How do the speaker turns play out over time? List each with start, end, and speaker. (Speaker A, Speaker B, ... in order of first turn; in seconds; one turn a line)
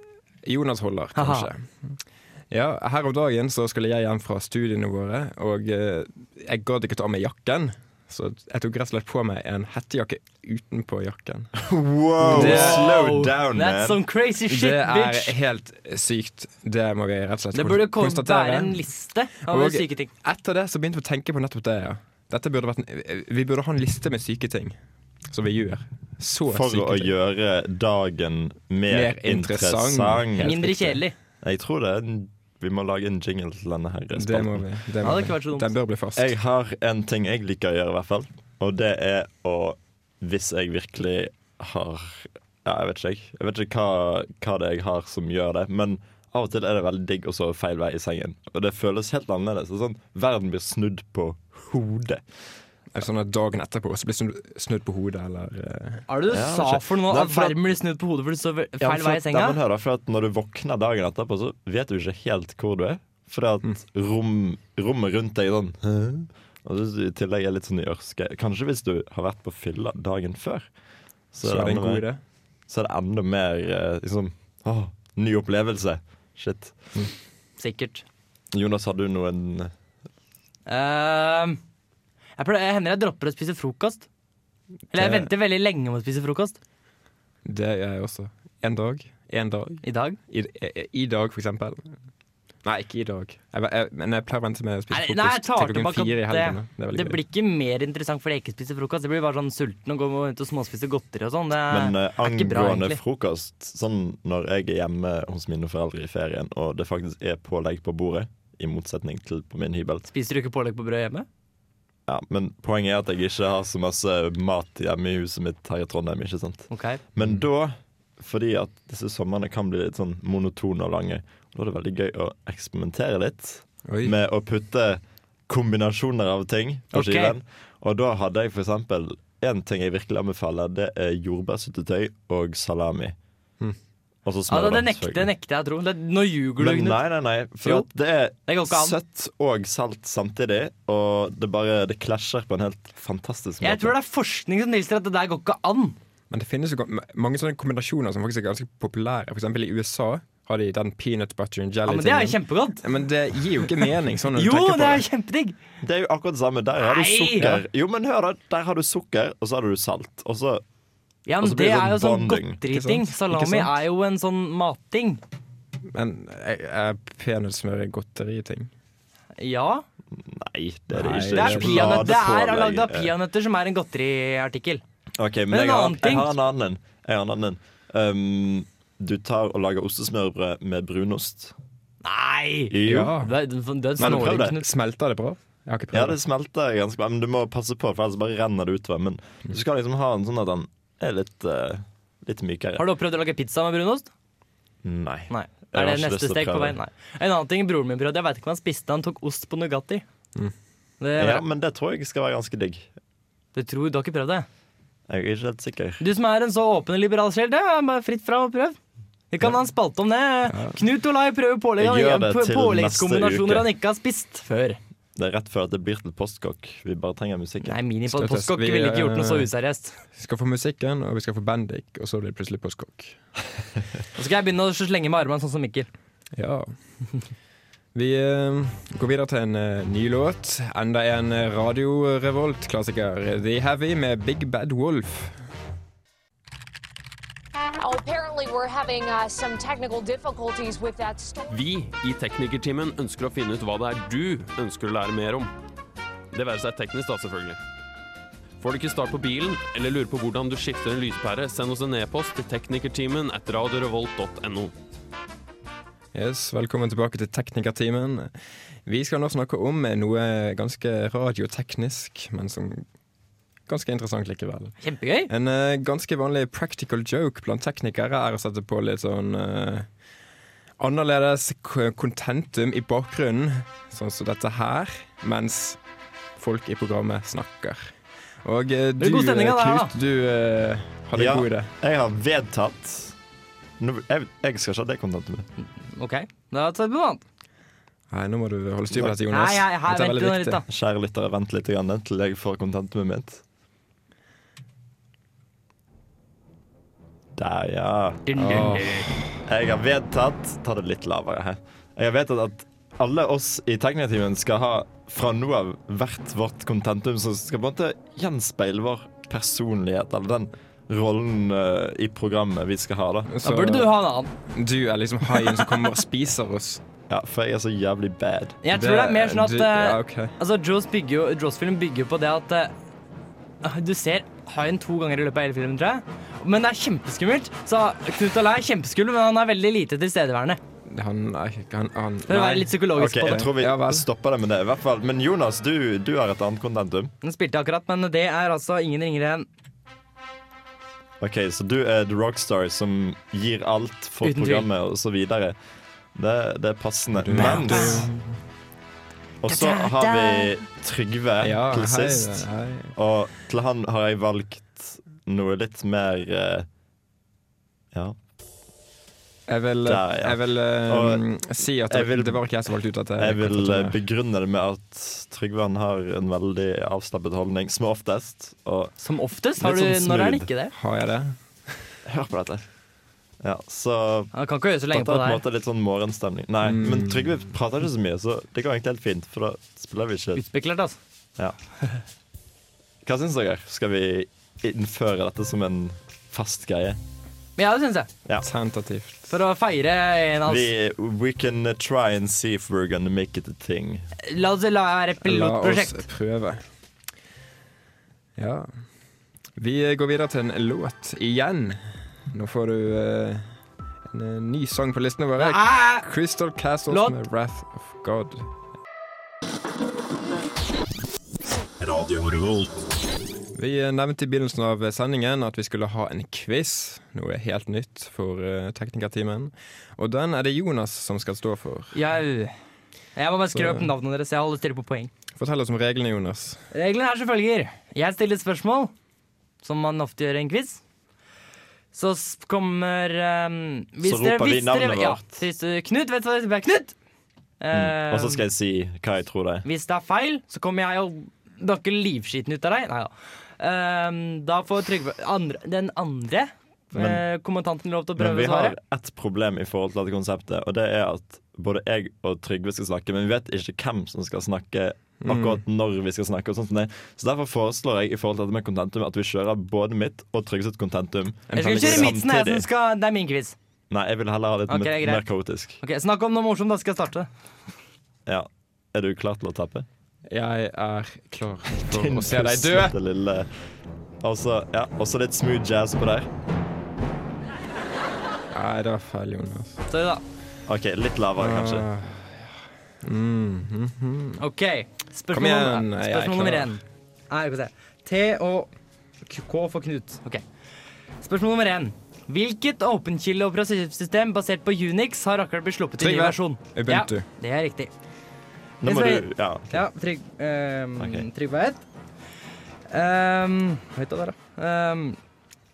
Speaker A: 0.4-11.5
Speaker B: 1.2-1.5
Speaker C: 11.6-14.0
Speaker B: 12.2-15.3
Speaker A: 12.3-12.9
Speaker A: 14.5-18.9
Speaker B: 17.5-20.1
Speaker A: 19.4-24.8
Speaker A: 25.3-27.1
Speaker C: 26.5-30.6
Speaker A: 28.9-31.0
Speaker B: 30.4-31.1
Speaker C: 31.4-34.6
Speaker A: 34.1-36.3
Speaker B: 35.0-35.7
Speaker C: 36.2-52.2
Speaker A: 52.9-56.1
Speaker B: 56.1-59.6
Speaker C: 56.3-57.6
Speaker C: 58.8-70.7
Speaker C: 71.3-72.0
Speaker A: 71.4-72.2
Speaker C: 72.7-76.8
Speaker B: 77.6-78.0
Speaker C: 78.5-79.7
Speaker B: 80.7-81.6
Speaker B: 82.4-84.1
Speaker A: 84.9-85.3
Speaker B: 84.9-86.6
Speaker A: 87.5-91.9
Speaker B: 89.8-90.2
Speaker A: 92.6-97.2
Speaker B: 94.9-103.0
Speaker C: 101.7-110.1
Speaker B: 110.1-111.3
Speaker C: 112.1-133.2
Speaker B: 116.7-117.0
Speaker A: 123.9-124.1
Speaker B: 126.9-127.3
Speaker C: 134.2-135.3
Speaker B: 134.5-137.0
Speaker C: 136.6-143.9
Speaker B: 137.6-137.9
Speaker B: 138.5-138.9
Speaker B: 143.6-146.0
Speaker A: 146.3-155.1
Speaker B: 151.9-152.9
Speaker B: 153.6-155.6
Speaker C: 155.8-160.6
Speaker B: 156.8-157.6
Speaker B: 161.3-165.2
Speaker C: 161.4-162.6
Speaker A: 162.7-163.8
Speaker A: 165.9-168.7
Speaker B: 169.4-169.8
Speaker C: 170.2-173.1
Speaker A: 170.9-172.1
Speaker B: 171.3-174.8
Speaker C: 175.2-181.5
Speaker B: 175.5-176.3
Speaker B: 182.0-184.7
Speaker C: 182.7-183.2
Speaker A: 182.8-183.3
Speaker A: 184.0-186.2
Speaker C: 184.0-184.6
Speaker C: 185.9-192.8
Speaker B: 192.8-194.1
Speaker C: 194.8-196.8
Speaker B: 195.3-200.0
Speaker B: 201.0-201.4
Speaker C: 201.2-202.9
Speaker B: 203.6-204.5
Speaker C: 205.1-206.0
Speaker B: 206.0-208.8
Speaker B: 209.3-214.8
Speaker A: 210.5-210.8
Speaker C: 211.8-213.7
Speaker C: 215.2-217.8
Speaker B: 217.7-220.0
Speaker A: 218.1-219.5
Speaker A: 220.1-223.2
Speaker B: 224.2-225.9
Speaker A: 226.3-226.7
Speaker A: 227.9-235.4
Speaker D: 237.8-241.6
Speaker E: 241.5-245.5
Speaker E: 246.3-247.6
Speaker E: 248.6-254.7
Speaker A: 256.1-258.3
Speaker A: 258.9-262.9
Speaker A: 263.7-264.7
Speaker B: 264.8-265.3
Speaker A: 265.3-269.9
Speaker A: 270.8-275.8
Speaker A: 276.4-281.7
Speaker B: 279.0-279.9
Speaker C: 281.1-283.1
Speaker C: 283.8-285.5
Speaker B: 285.9-287.2
Speaker A: 288.1-290.6
Speaker B: 289.3-290.6
Speaker C: 290.7-293.4
Speaker C: 297.4-298.3
Speaker B: 298.3-299.1
Speaker A: 298.4-299.2
Speaker C: 299.4-313.3
Speaker A: 313.3-313.9
Speaker B: 313.4-314.3
Speaker A: 314.5-316.8
Speaker B: 315.4-315.7
Speaker C: 317.1-318.6
Speaker B: 318.6-322.7
Speaker A: 318.7-320.3
Speaker B: 323.6-330.6
Speaker A: 330.9-334.1
Speaker B: 332.3-333.5
Speaker C: 333.0-337.1
Speaker B: 337.2-339.5
Speaker C: 341.2-345.6
Speaker B: 344.2-344.7
Speaker C: 346.1-348.1
Speaker A: 347.2-348.2
Speaker B: 347.3-348.1
Speaker C: 349.4-356.7
Speaker B: 349.4-350.5
Speaker A: 351.4-352.9
Speaker A: 359.5-364.0
Speaker C: 359.9-361.3
Speaker C: 361.9-362.4
Speaker C: 363.2-368.9
Speaker B: 369.0-370.7
Speaker C: 369.6-370.5
Speaker A: 370.7-371.9
Speaker C: 372.1-372.6
Speaker C: 373.4-374.3
Speaker B: 374.3-375.4
Speaker C: 374.9-380.4
Speaker A: 376.6-377.4
Speaker B: 380.4-381.0
Speaker C: 383.1-387.0
Speaker B: 387.6-388.1
Speaker A: 388.4-389.3
Speaker B: 389.3-390.7
Speaker C: 390.5-394.1
Speaker B: 394.2-396.1
Speaker A: 395.2-396.6
Speaker A: 398.4-398.7
Speaker A: 399.6-403.5
Speaker A: 404.1-408.5
Speaker B: 405.4-406.1
Speaker B: 406.9-407.2
Speaker C: 411.8-412.7
Speaker A: 413.5-422.0
Speaker B: 421.9-422.6
Speaker B: 423.2-425.1
Speaker A: 423.5-423.9
Speaker A: 425.4-426.6
Speaker B: 426.7-428.9
Speaker B: 429.6-430.8
Speaker B: 431.9-436.9
Speaker C: 434.0-435.4
Speaker B: 437.6-438.4
Speaker C: 437.7-439.7
Speaker B: 439.6-448.8
Speaker C: 446.9-447.2
Speaker C: 448.2-462.7
Speaker A: 455.2-455.6
Speaker A: 461.5-462.2
Speaker B: 461.5-463.6
Speaker C: 463.9-465.8
Speaker B: 464.7-465.2
Speaker B: 465.8-467.3
Speaker C: 468.3-469.9
Speaker A: 470.3-473.0
Speaker C: 471.8-473.5
Speaker C: 474.2-476.3
Speaker A: 478.5-479.8
Speaker B: 479.9-480.2
Speaker C: 480.7-481.9
Speaker A: 481.4-484.4
Speaker B: 484.4-488.7
Speaker A: 485.3-486.8
Speaker B: 489.2-490.4
Speaker B: 491.2-497.9
Speaker A: 496.0-497.3
Speaker C: 498.8-499.8
Speaker B: 498.8-501.8
Speaker C: 501.0-501.3
Speaker B: 502.9-505.2